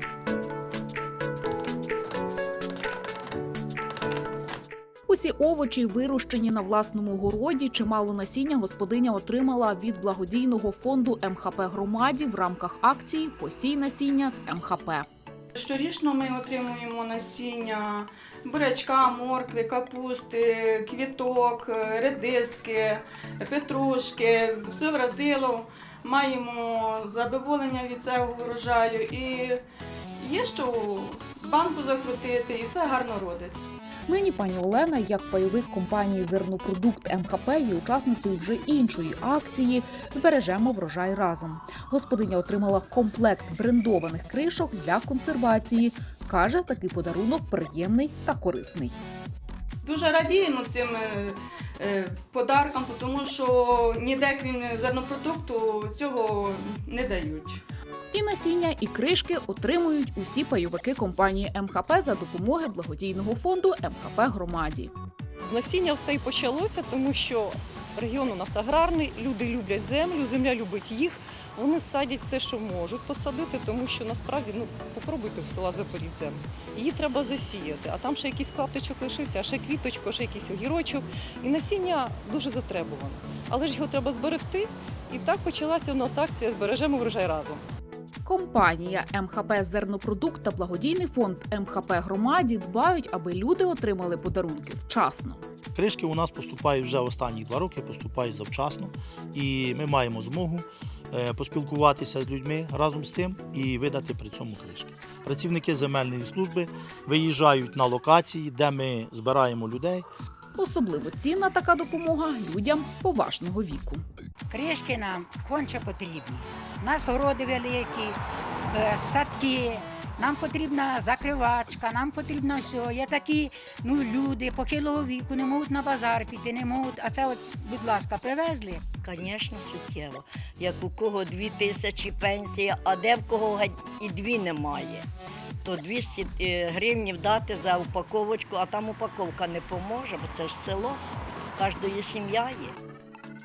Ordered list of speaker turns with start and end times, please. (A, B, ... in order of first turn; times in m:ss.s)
0:05.1-0:15.0 A
0:15.6-0:29.6 B
0:30.2-0:33.6 B
0:34.1-0:49.0 A
0:49.8-0:57.6 B
0:58.1-1:04.9 A
1:05.4-1:27.6 C
1:28.2-1:35.4 A
1:35.7-1:50.0 D
1:50.6-1:54.0 A
1:54.5-1:58.2 E
1:58.7-2:08.8 E
2:09.0-2:15.0 F
2:15.6-2:21.0 F
2:21.6-2:22.8 F